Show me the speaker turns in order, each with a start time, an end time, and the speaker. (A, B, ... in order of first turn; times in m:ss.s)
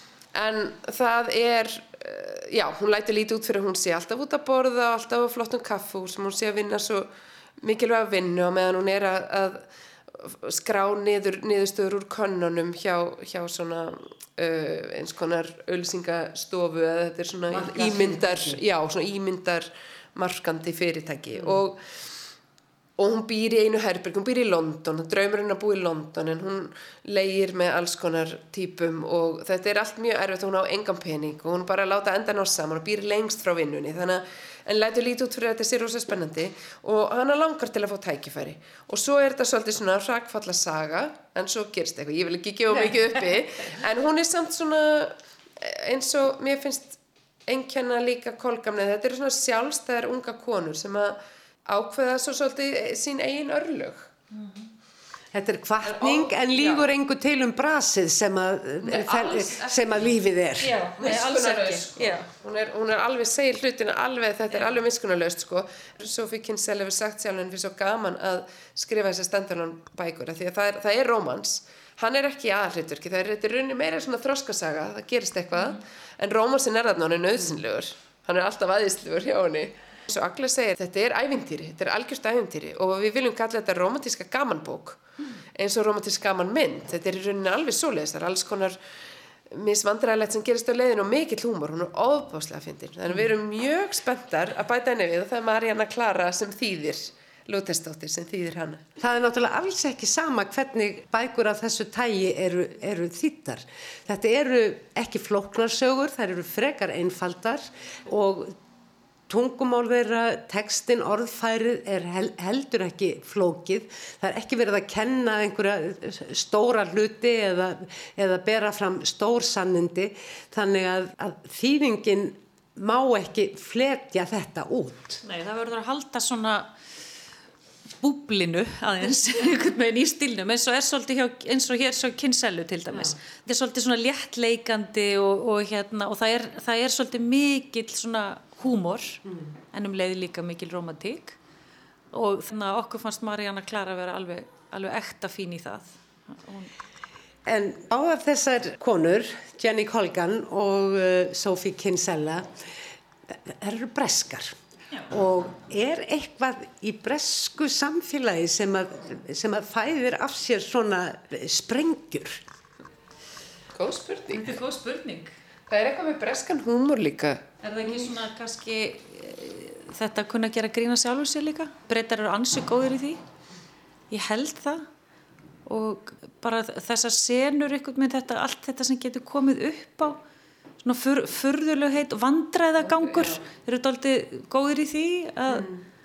0:00.3-0:07.1 A
0:07.6-0:21.8 A
0:17.5-0:18.6 B
0:23.0-0:54.1 A
0:55.3-1:00.8 B
0:56.0-0:56.8 A
0:58.9-0:59.8 A
1:00.6-1:02.3 C
1:01.0-1:25.0 A
1:25.6-1:28.8 A
1:29.5-1:38.8 A
1:39.0-1:48.6 B
1:49.3-2:05.2 B
2:05.2-2:06.7 C
2:08.0-2:21.4 C
2:22.1-2:26.7 C
2:27.5-2:32.6 B
2:33.3-2:34.5 B
2:35.1-2:42.4 B
2:43.8-2:44.5 A
2:44.3-2:45.4 C
2:45.7-2:47.5 A
2:47.6-2:53.2 C
2:54.1-2:54.9 C
2:55.7-3:00.2 C
3:00.8-3:05.8 C